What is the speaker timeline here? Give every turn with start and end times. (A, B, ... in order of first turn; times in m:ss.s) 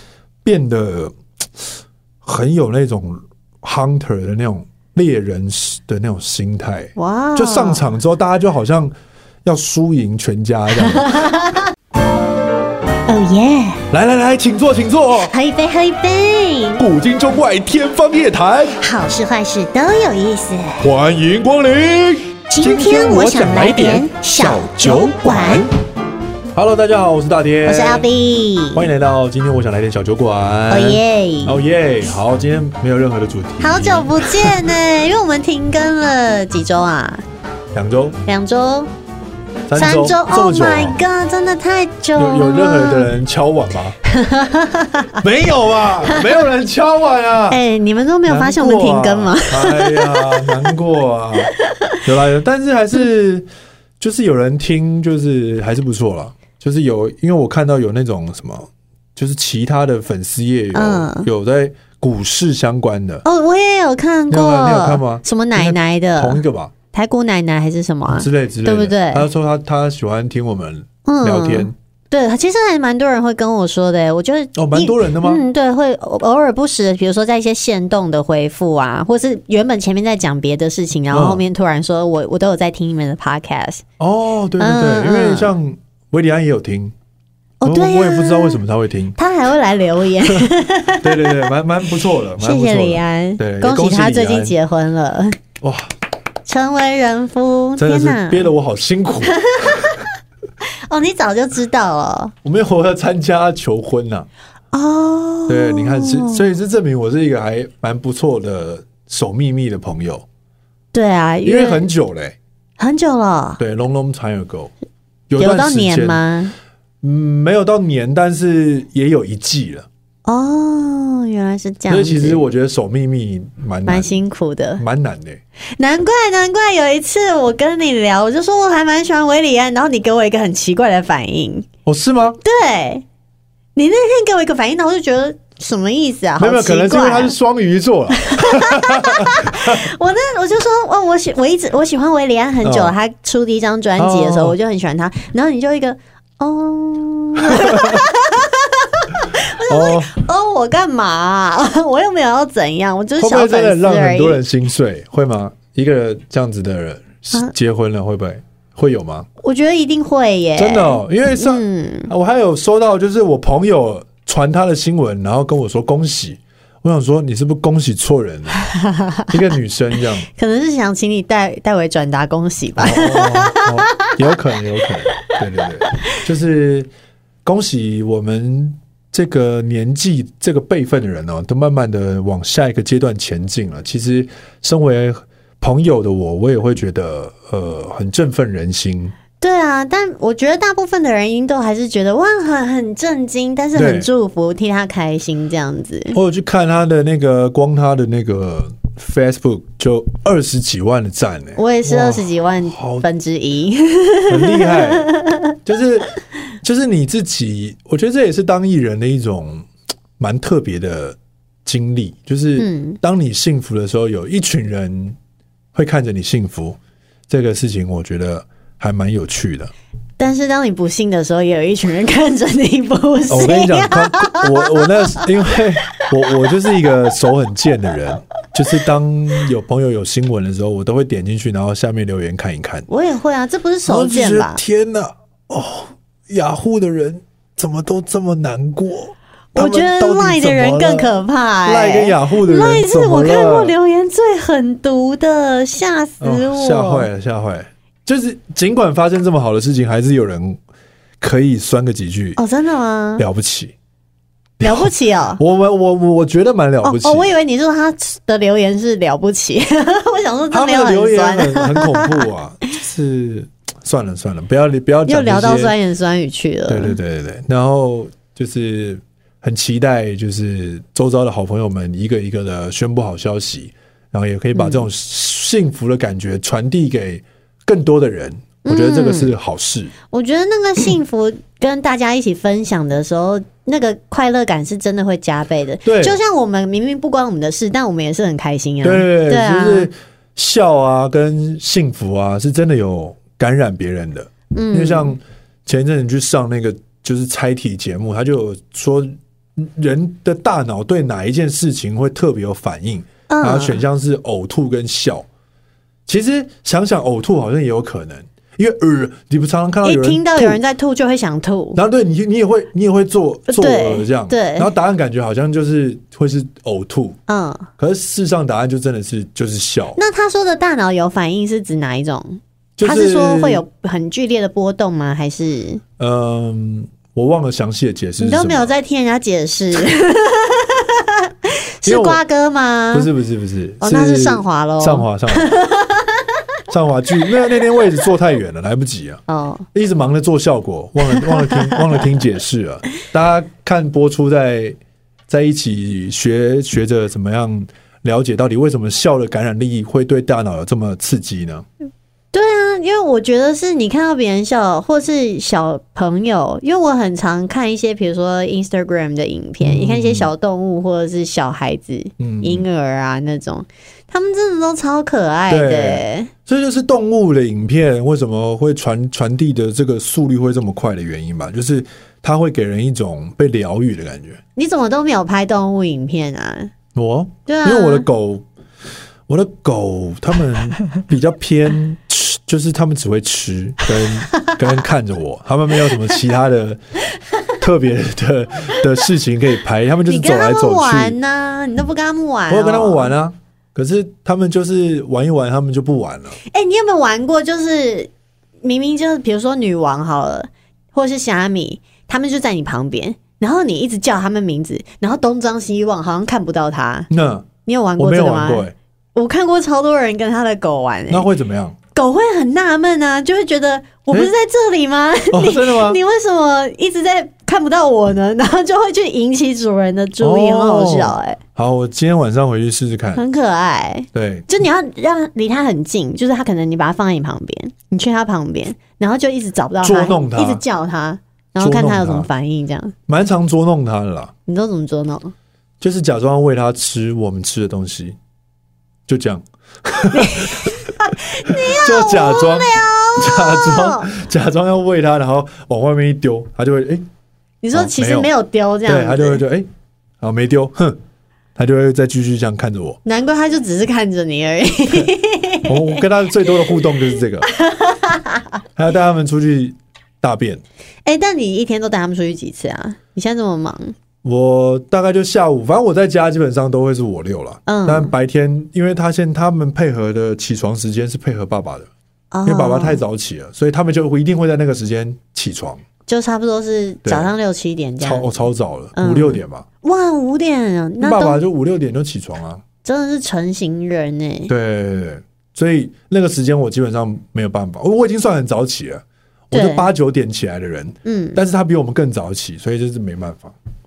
0:00.4-0:01.7 A
0:02.2-0:11.2 A
0:07.0-0:07.8 B
0:10.8-0:11.6 B
0:13.1-0:13.8 B
0:13.9-0:15.3 A
0:15.3-0:16.8 B
0:16.8-0:18.8 A
0:18.8-0:20.8 B
0:20.8-0:25.7 A
0:22.5-0:25.7 B
0:26.6-0:28.1 A
0:27.6-0:28.9 B
0:28.7-0:34.6 A
0:30.7-0:31.6 B
0:33.6-0:37.2 B
0:37.7-0:38.2 A
0:38.3-0:38.9 B
0:39.7-0:41.0 A
0:39.8-0:43.1 B
0:42.2-0:44.0 A
0:44.0-0:45.2 B
0:45.2-0:47.6 A
0:46.1-0:46.4 B
0:47.5-0:50.7 B
0:48.3-0:53.5 A
0:51.6-0:52.0 B
0:54.0-1:03.2 A
1:00.7-1:01.3 B
1:03.2-1:06.4 B
1:04.3-1:06.7 A
1:06.9-1:09.3 B
1:08.1-1:11.8 A
1:11.0-1:23.8 B
1:14.6-1:15.4 A
1:21.1-1:21.4 A
1:24.0-1:27.0 A
1:24.6-1:25.5 B
1:27.6-1:28.6 B
1:27.6-1:29.2 A
1:29.2-1:31.5 B
1:30.3-1:34.6 A
1:32.4-1:35.4 B
1:35.6-1:35.9 A
1:36.5-1:38.5 B
1:37.8-1:40.0 A
1:39.5-1:40.0 B
1:40.6-1:42.3 B
1:42.4-1:44.3 A
1:44.7-1:46.4 B
1:45.5-1:50.3 A
1:50.9-1:51.8 B
1:51.4-1:52.4 A
1:52.8-1:53.6 B
1:53.6-1:54.7 A
1:55.3-1:56.2 A
1:55.4-1:56.5 B
1:57.0-1:59.9 A
2:00.2-2:02.4 B
2:01.9-2:04.2 A
2:03.9-2:04.8 B
2:04.8-2:05.4 A
2:05.8-2:11.7 B
2:11.9-2:12.4 A
2:12.4-2:13.0 B
2:13.8-2:17.3 B
2:16.4-2:19.9 A
2:18.1-2:34.4 B
2:22.6-2:22.9 A
2:24.0-2:24.6 A
2:27.4-2:28.0 A
2:29.2-2:30.1 A
2:33.2-2:39.3 A
2:39.4-2:42.1 B
2:40.6-2:48.6 A
2:48.6-2:49.4 B
2:49.3-2:50.3 A
2:50.3-2:53.9 B
2:52.8-2:56.9 A
2:57.4-3:09.2 A
3:09.4-3:16.2 B
3:13.8-3:14.1 A
3:16.1-3:23.1 A
3:21.6-3:25.6 B
3:24.3-3:25.1 A
3:25.6-3:29.7 A
3:30.2-3:35.2 A
3:32.6-3:33.0 B
3:35.7-3:36.8 A
3:37.3-3:39.7 A
3:40.2-3:45.3 B
3:43.3-3:52.9 A
3:52.9-3:54.6 B
3:53.9-4:03.8 A
3:59.6-4:07.1 B
4:06.2-4:10.6 A
4:11.2-4:12.4 A
4:12.4-4:13.2 B
4:13.2-4:13.7 A
4:14.6-4:17.3 A
4:14.6-4:15.4 B
4:16.8-4:22.2 B
4:20.5-4:25.8 A
4:25.1-4:27.0 B
4:26.7-4:39.9 A
4:34.5-4:34.8 B
4:38.6-4:39.3 B
4:40.1-4:49.9 B
4:45.8-4:46.2 A
4:48.8-5:05.3 A
4:54.5-4:55.2 B
5:03.3-5:03.8 B
5:06.1-5:10.6 A
5:09.8-5:11.8 B
5:11.8-5:17.2 A
5:13.5-5:14.7 B
5:17.3-5:17.7 B
5:17.8-5:20.0 A
5:20.0-5:25.8 B
5:22.8-5:23.6 A
5:26.0-5:28.7 A
5:28.2-5:33.1 B
5:31.8-5:32.2 A
5:32.9-5:35.5 A
5:33.8-5:36.3 B
5:36.7-5:39.2 A
5:39.3-5:39.7 B
5:39.7-5:44.8 A
5:41.1-5:41.9 B
5:45.3-5:51.7 A
5:52.3-6:06.3 B
5:59.6-6:00.3 A
6:02.2-6:02.7 A
6:05.5-6:14.4 A
6:14.6-6:16.7 B
6:17.0-6:18.4 A
6:17.5-6:18.1 B
6:19.3-6:26.8 A
6:27.6-6:31.2 A
6:30.1-6:33.1 B
6:32.5-6:36.4 A
6:36.5-6:38.1 B
6:38.6-6:47.1 B
6:47.1-6:48.7 A
6:47.7-6:51.3 B
6:51.1-6:51.8 A
6:52.0-7:01.4 B
6:55.3-6:56.0 A
7:00.2-7:03.2 A
7:03.2-7:12.9 B
7:04.1-7:04.5 A
7:09.8-7:10.6 A
7:11.6-7:12.3 A
7:13.1-7:14.3 A
7:14.5-7:15.3 B
7:15.8-7:18.2 A
7:19.1-7:27.0 A
7:20.1-7:24.1 B
7:27.6-7:29.4 B
7:27.7-7:28.3 A
7:28.9-7:29.7 A
7:30.2-7:31.0 A
7:31.6-7:33.0 A
7:33.0-7:36.0 B
7:35.6-7:37.5 A
7:37.5-7:38.6 B
7:38.8-7:40.6 A
7:41.0-7:44.0 B
7:44.2-7:51.9 A
7:47.7-7:48.1 B
7:52.3-7:53.0 B
7:52.5-7:55.8 A
7:56.1-7:58.4 B
7:57.0-7:57.3 A
7:58.0-7:59.7 A
7:59.0-8:01.4 B
8:01.0-8:02.6 A
8:02.8-8:04.5 B
8:04.5-8:13.6 A
8:09.5-8:09.9 B
8:11.0-8:11.4 B